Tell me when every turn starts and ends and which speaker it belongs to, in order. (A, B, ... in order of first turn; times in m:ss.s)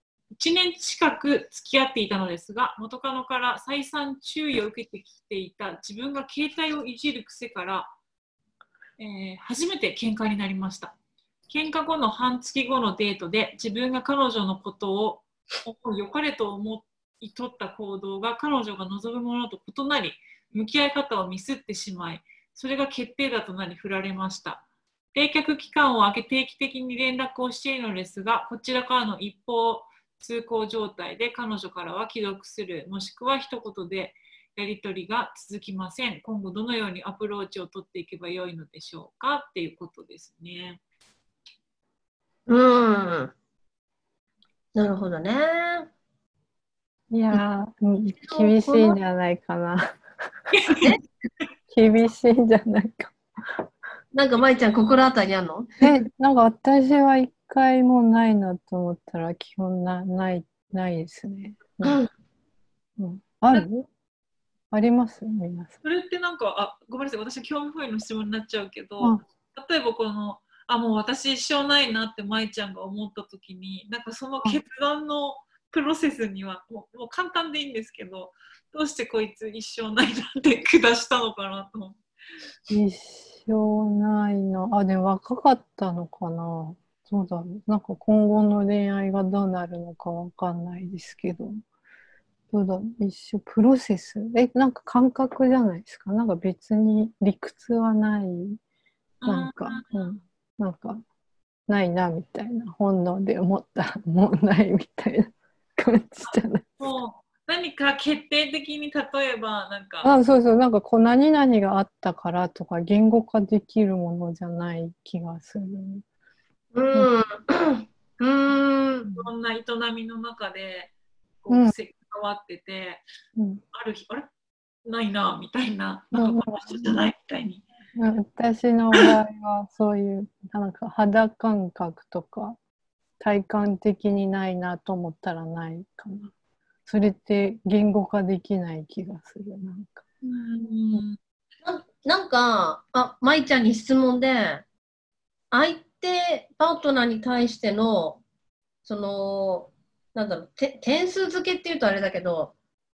0:00.3-0:07.9 A
0:09.0-0:11.0 A
0:11.5-0:40.8 A
0:42.5-0:43.3 B
0:44.8-0:45.9 B
0:47.1-0:50.0 C
0:48.2-0:49.0 B
0:50.5-0:50.8 A
0:51.7-0:53.6 C
0:54.1-0:55.8 B
0:55.8-1:02.0 C
1:01.8-1:02.1 B
1:03.0-1:03.9 C
1:04.7-1:05.7 C
1:05.8-1:22.0 A
1:22.7-1:31.6 C
1:32.5-1:38.6 C
1:39.2-1:40.2 A
1:39.2-1:41.0 C
1:41.7-1:46.9 C
1:46.2-1:50.1 A
1:50.0-1:56.0 C
1:56.7-1:59.3 B
1:59.1-2:00.9 A
2:01.4-2:03.0 A
2:03.4-2:03.6 C
2:03.7-2:04.3 A
2:04.8-2:07.7 A
2:06.1-2:07.1 C
2:08.0-2:12.6 C
2:13.2-2:16.3 C
2:16.9-2:20.0 C
2:20.2-2:21.2 A
2:21.6-2:24.6 B
2:25.5-2:28.2 B
2:28.8-2:32.5 B